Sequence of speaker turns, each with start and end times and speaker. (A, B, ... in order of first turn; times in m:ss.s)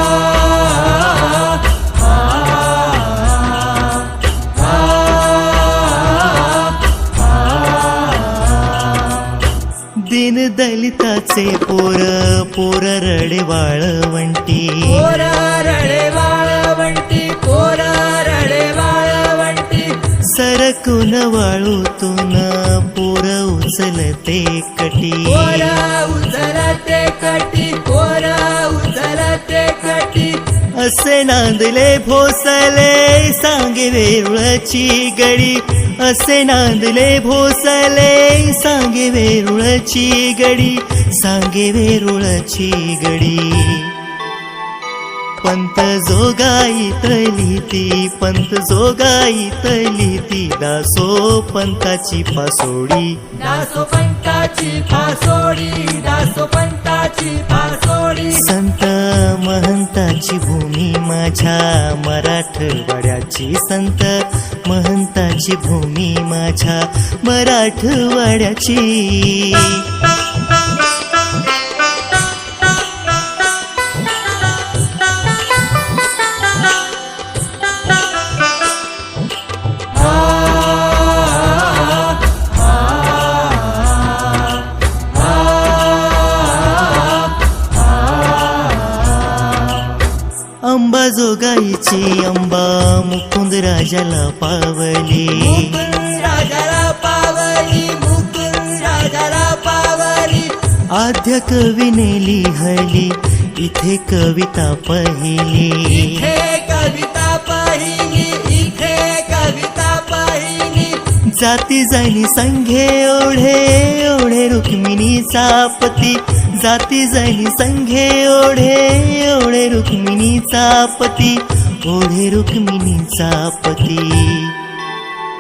0:00.4-0:00.7 A
0:05.2-0:06.6 A
0:07.7-0:08.6 A
0:10.0-0:15.2 B
0:14.9-0:20.1 A
0:20.1-0:25.8 B
0:25.3-0:30.6 A
0:30.7-0:44.0 B
0:45.4-0:53.4 B
0:53.3-0:58.5 A
0:58.3-1:10.0 B
1:20.9-1:21.3 A
1:28.5-1:29.0 A
1:30.6-1:35.9 B
1:35.4-1:40.6 A
1:40.9-1:46.4 B
1:45.9-1:51.1 A
1:51.2-2:04.6 B